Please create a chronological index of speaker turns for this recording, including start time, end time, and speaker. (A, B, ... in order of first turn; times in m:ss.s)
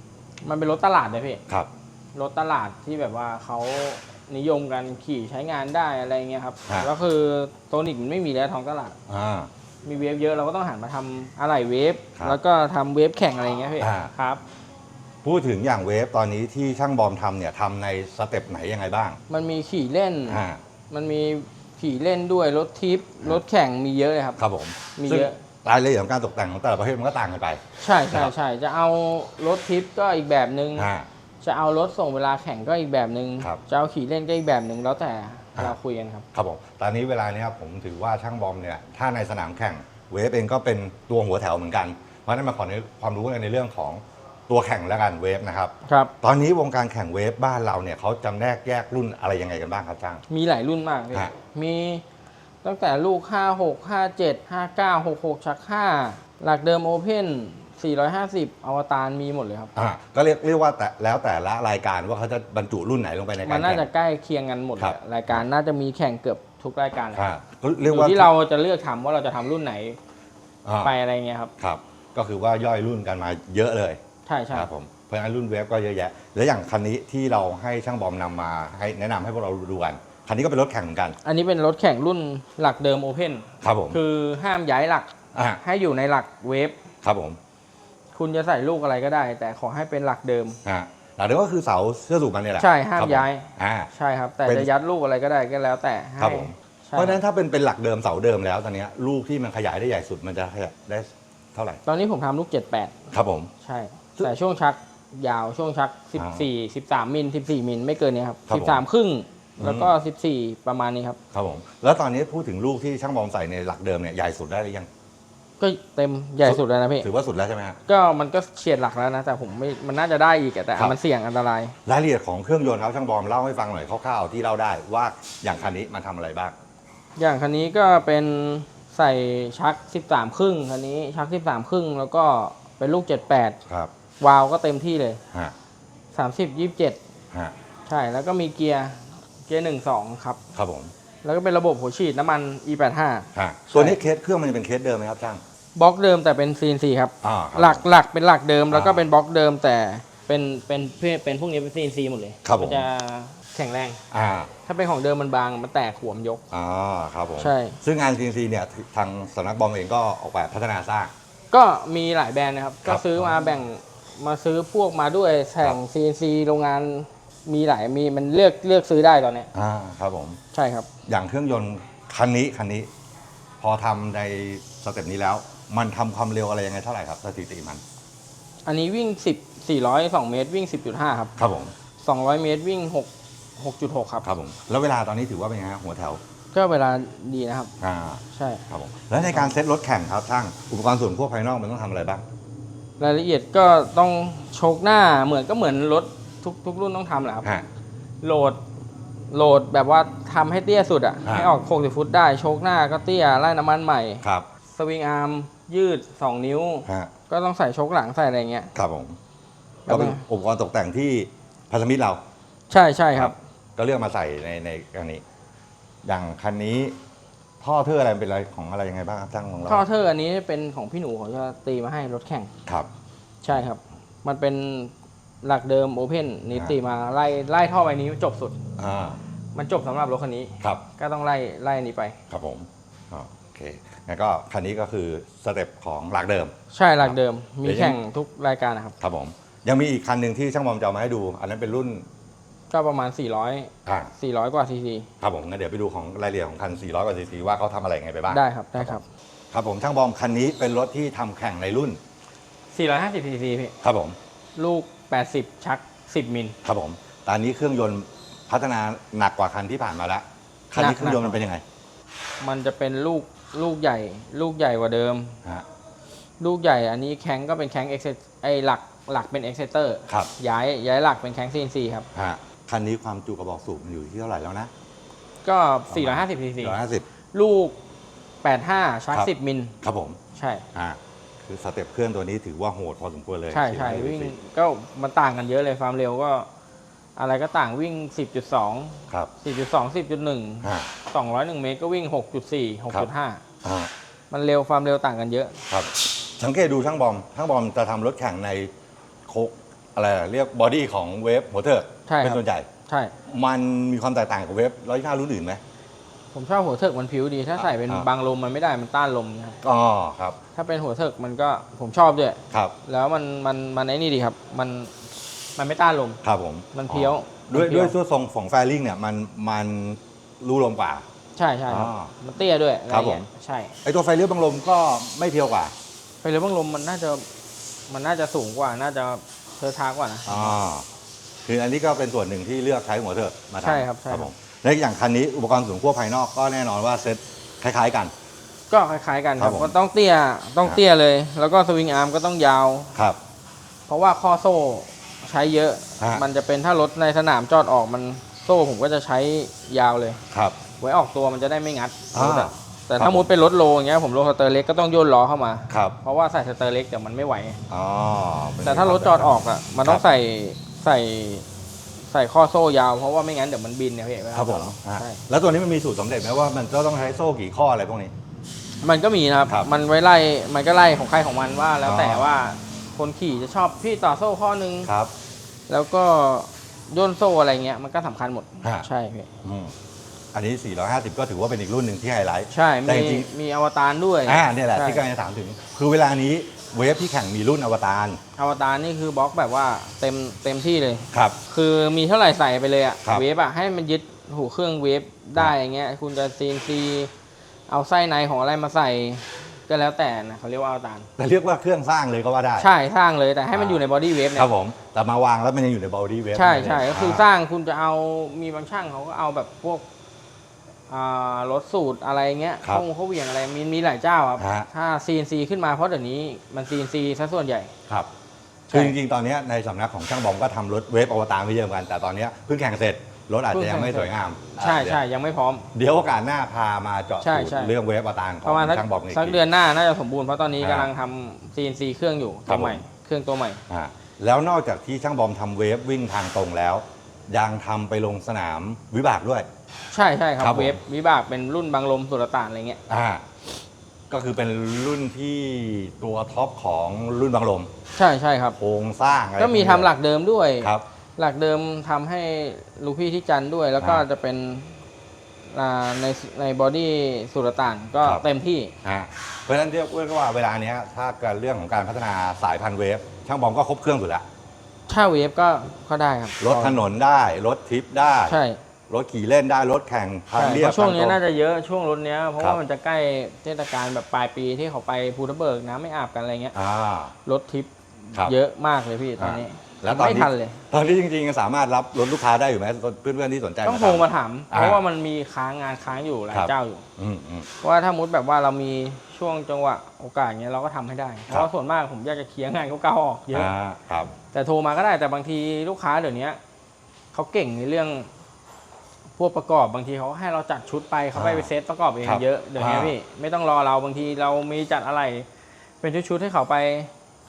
0:00.4-0:01.4 A
0:02.1-0:09.0 A
0:09.1-0:09.5 B
0:09.8-0:14.4 A
0:13.8-0:14.1 B
0:15.2-0:19.2 B
0:19.3-0:24.4 A
0:20.3-0:20.6 B
0:24.4-0:28.3 B
0:24.9-0:25.4 A
0:27.8-0:30.9 A
0:30.8-0:31.1 B
0:31.4-0:36.2 A
0:36.3-0:50.2 B
0:45.8-0:46.1 A
0:50.3-0:52.0 A
0:52.6-0:59.7 A
0:59.8-1:03.9 B
1:03.4-1:07.2 A
1:04.8-1:05.4 B
1:07.1-1:08.3 B
1:07.8-1:10.0 A
1:10.6-1:10.9 B
1:10.8-1:11.5 A
1:11.6-1:14.0 B
1:14.2-1:14.7 A
1:14.5-1:21.2 B
1:21.2-1:25.1 A
1:23.6-1:24.0 B
1:25.3-1:25.6 B
1:25.6-1:26.8 A
1:27.0-1:27.4 B
1:28.1-1:30.6 A
1:30.6-1:33.9 B
1:32.6-1:37.2 A
1:36.2-1:41.8 B
1:41.8-1:43.1 A
1:43.1-1:43.5 B
1:43.6-1:51.2 A
1:46.2-1:46.4 B
1:48.5-1:48.8 B
1:49.6-1:49.9 B
1:51.3-1:54.9 B
1:55.6-1:57.1 A
1:56.4-1:57.8 B
1:57.9-2:01.8 A
2:01.8-2:06.5 B
2:07.2-2:13.6 A
2:14.2-2:15.2 A
2:16.1-2:17.0 A
2:17.9-2:20.4 A
2:20.5-2:20.9 B
2:21.2-2:24.0 A
2:23.3-2:25.4 B
2:25.7-2:34.0 A
2:27.2-2:27.8 B
2:28.7-2:29.0 B
2:32.4-2:32.8 B
2:34.1-2:34.5 B
2:34.6-2:36.4 A
2:36.5-2:41.1 B
2:37.4-2:37.8 A
2:41.5-2:49.5 A
2:42.8-2:43.4 B
2:49.5-2:50.4 B
2:50.5-2:50.9 A
2:51.0-2:52.9 B
2:53.6-2:57.8 B
2:58.6-3:01.3 A
3:01.4-3:01.7 B
3:02.0-3:04.2 A
3:04.2-3:06.2 B
3:06.5-3:07.7 A
3:07.8-3:12.2 B
3:08.3-3:08.6 A
3:09.2-3:09.6 A
3:13.0-3:17.4 A
3:18.2-3:18.6 A
3:19.3-3:28.7 A
3:21.2-3:21.5 B
3:26.8-3:27.1 B
3:28.7-3:29.2 B
3:29.9-3:30.2 A
3:29.9-3:32.2 B
3:32.7-3:33.3 A
3:33.1-3:35.2 B
3:36.0-3:37.0 B
3:37.6-3:39.8 B
3:39.7-3:42.5 A
3:43.4-3:48.6 A
3:48.8-3:49.2 B
3:49.5-3:52.2 A
3:52.3-3:58.0 B
3:56.7-3:59.0 A
3:59.0-4:02.0 B
4:02.7-4:05.1 A
4:03.8-4:04.1 B
4:05.2-4:09.0 B
4:08.3-4:09.0 A
4:09.5-4:12.0 B
4:12.7-4:13.7 A
4:13.8-4:14.2 B
4:14.6-4:16.6 A
4:16.6-4:21.6 B
4:20.7-4:21.4 A
4:22.4-4:25.4 A
4:26.4-4:32.1 A
4:32.1-4:34.7 B
4:35.4-4:36.8 A
4:35.9-4:37.0 B
4:37.3-4:37.8 A
4:38.4-4:39.8 A
4:39.8-4:40.2 B
4:40.3-4:40.6 A
4:40.7-4:44.3 B
4:43.5-4:46.5 A
4:47.2-4:53.4 A
4:50.6-4:50.9 B
4:53.6-4:53.9 B
4:54.3-4:55.6 A
4:55.7-4:58.7 B
4:59.3-5:02.7 B
5:02.1-5:03.1 A
5:03.2-5:05.6 B
5:06.3-5:09.6 A
5:07.6-5:08.1 B
5:09.6-5:10.4 B
5:10.6-5:15.0 A
5:15.6-5:16.2 A
5:16.2-5:21.0 B
5:16.7-5:17.9 A
5:21.4-5:23.7 A
5:21.7-5:22.1 B
5:22.9-5:23.2 B
5:23.8-5:25.7 B
5:26.2-5:27.3 A
5:27.9-5:30.6 A
5:30.2-5:30.8 B
5:31.4-5:38.1 B
5:33.6-5:34.3 A
5:38.7-5:42.9 A
5:39.4-5:39.7 B
5:43.9-5:50.2 A
5:50.3-5:50.6 B
5:50.8-5:57.6 A
5:52.1-5:53.3 B
5:55.7-5:55.9 B
5:57.7-6:00.0 B
5:58.6-6:01.4 A
6:02.1-6:05.2 A
6:04.3-6:08.1 B
6:08.8-6:14.9 A
6:11.8-6:12.3 B
6:14.8-6:15.1 B
6:15.7-6:19.3 A
6:19.4-6:19.7 B
6:20.3-6:23.3 B
6:22.5-6:25.0 A
6:24.2-6:28.2 B
6:28.4-6:37.1 A
6:31.1-6:31.4 B
6:37.7-6:41.1 A
6:41.2-6:42.7 B
6:42.6-6:44.5 A
6:43.5-6:43.8 B
6:44.3-6:47.3 B
6:46.3-6:49.8 A
6:50.9-6:57.7 A
6:54.4-6:54.7 B
6:58.7-6:59.0 A
6:58.7-7:05.0 B
7:03.5-7:05.7 A
7:05.7-7:09.4 B
7:07.2-7:07.7 A
7:08.4-7:13.6 A
7:10.6-7:10.9 B
7:12.5-7:12.8 B
7:13.7-7:19.5 B
7:19.9-7:22.8 A
7:20.4-7:20.8 B
7:22.9-7:23.2 B
7:24.1-7:27.7 B
7:28.0-7:28.6 A
7:28.6-7:29.9 B
7:29.4-7:34.8 A
7:35.5-7:38.7 A
7:38.8-7:44.2 B
7:44.9-7:46.8 A
7:46.4-7:51.2 B
7:48.2-7:48.6 A
7:50.3-7:56.5 A
7:56.5-7:57.1 B
7:57.2-8:00.6 A
7:59.2-8:04.8 B
8:03.6-8:06.8 A
8:06.3-8:07.5 B
8:07.6-8:13.5 A
8:13.3-8:14.1 B
8:14.3-8:16.4 A
8:17.1-8:18.1 A
8:19.2-8:25.3 A
8:21.1-8:21.5 B
8:22.0-8:22.9 B
8:25.8-8:26.9 A